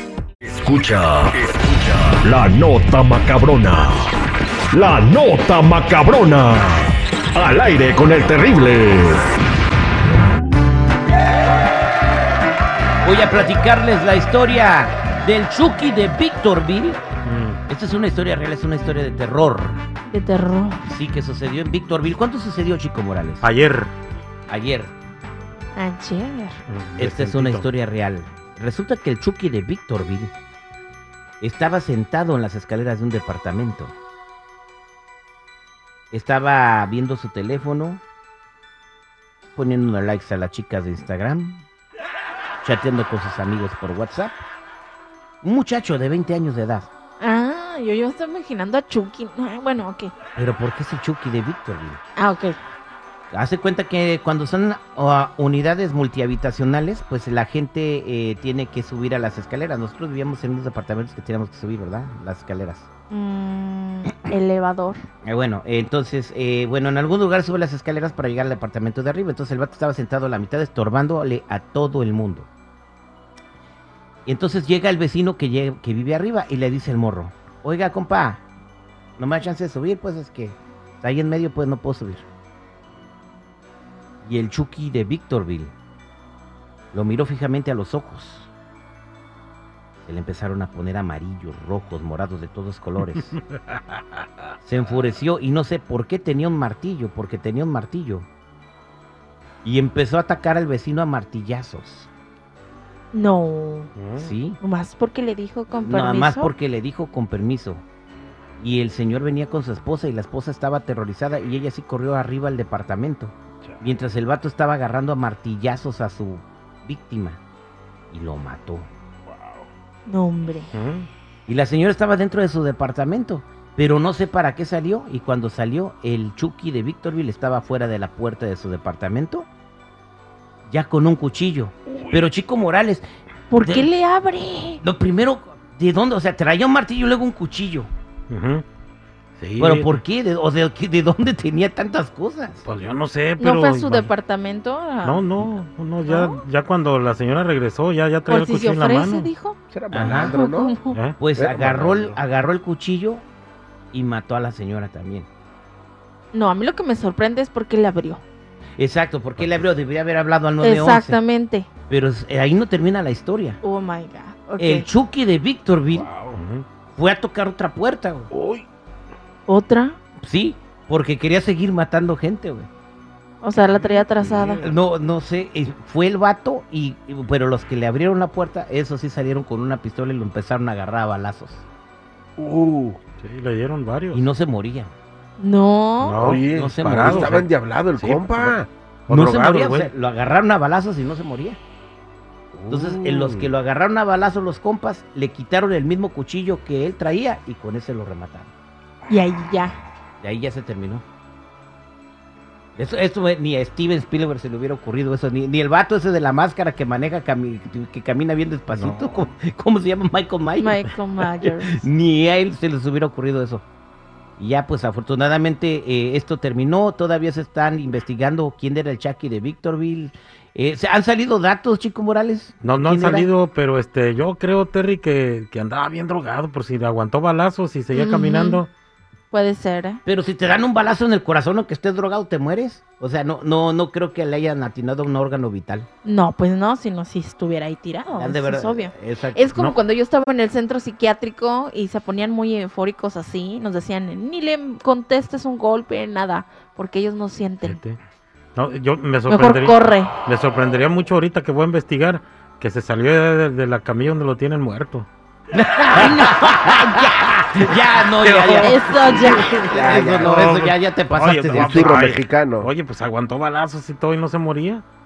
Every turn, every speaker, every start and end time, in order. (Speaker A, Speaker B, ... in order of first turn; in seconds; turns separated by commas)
Speaker A: 0.4-4.2, Speaker A: 4.7-9.3, Speaker B: 13.0-17.0, Speaker C: 17.2-17.6, Speaker B: 17.7-19.8, Speaker D: 20.1-20.9, Speaker B: 20.9-23.5, Speaker C: 23.4-23.9, Speaker B: 24.5-24.9, Speaker D: 25.8-26.6, Speaker C: 26.7-27.7, Speaker B: 27.0-30.3, Speaker B: 31.4-33.9, Speaker B: 36.1-38.0, Speaker B: 39.5-41.6, Speaker B: 42.6-44.4, Speaker B: 45.4-46.9, Speaker D: 47.2-50.1, Speaker B: 50.4-52.0, Speaker D: 52.2-52.6, Speaker B: 53.3-62.9, Speaker D: 63.1-65.0, Speaker B: 65.2-72.5, Speaker B: 74.3-78.4, Speaker B: 79.2-82.3, Speaker B: 84.2-85.7, Speaker B: 86.9-88.5, Speaker B: 90.1-93.4, Speaker B: 94.6-98.3, Speaker B: 99.6-102.1, Speaker D: 103.1-103.9, Speaker C: 104.0-104.3, Speaker B: 104.2-104.6, Speaker D: 104.6-106.5, Speaker B: 105.8-107.8, Speaker B: 108.6-117.4, Speaker B: 118.1-118.9, Speaker E: 119.3-119.7, Speaker D: 120.1-120.7, Speaker C: 120.7-121.1, Speaker B: 121.5-129.5, Speaker B: 130.7-133.1, Speaker E: 131.9-132.2, Speaker D: 133.5-134.8, Speaker B: 133.6-133.9, Speaker B: 134.8-137.9, Speaker C: 138.3-138.7, Speaker C: 139.4-140.0, Speaker B: 139.6-142.6, Speaker C: 142.6-144.1, Speaker D: 143.4-145.3, Speaker C: 145.0-149.3, Speaker D: 146.1-146.4, Speaker D: 148.3-149.6, Speaker E: 149.7-150.8, Speaker B: 149.9-150.3, Speaker D: 150.1-151.0, Speaker C: 150.9-151.2, Speaker B: 151.2-153.2, Speaker E: 151.3-152.2, Speaker B: 153.9-155.3, Speaker D: 156.3-158.2, Speaker B: 158.8-161.2, Speaker D: 160.6-161.7, Speaker B: 161.9-163.6, Speaker D: 163.6-164.9, Speaker B: 164.6-166.1, Speaker E: 165.9-166.4, Speaker C: 166.3-166.7, Speaker B: 166.9-168.3, Speaker E: 168.3-168.7, Speaker D: 169.5-170.0, Speaker B: 170.2-172.7, Speaker D: 173.4-174.6, Speaker E: 174.2-174.8, Speaker B: 174.6-181.6, Speaker E: 182.4-183.0, Speaker C: 183.2-184.2, Speaker B: 184.1-184.9, Speaker D: 185.4-186.2, Speaker C: 186.0-189.9, Speaker E: 186.2-188.7, Speaker B: 186.4-187.4, Speaker B: 189.1-191.6, Speaker E: 192.5-193.5, Speaker B: 192.7-198.5, Speaker D: 199.1-199.8, Speaker B: 200.2-201.0, Speaker B: 202.8-213.7, Speaker C: 208.7-209.1, Speaker D: 210.6-211.9, Speaker B: 214.4-223.3, Speaker C: 222.6-228.7, Speaker D: 227.9-228.6, Speaker D: 229.3-230.0, Speaker B: 230.1-235.9, Speaker D: 236.0-247.8, Speaker B: 238.2-239.5, Speaker C: 247.6-248.0, Speaker C: 248.6-255.1, Speaker D: 249.3-250.1, Speaker B: 255.5-262.1, Speaker D: 255.9-257.1, Speaker C: 258.2-264.8, Speaker D: 258.6-259.6, Speaker E: 259.7-260.4, Speaker E: 261.5-262.7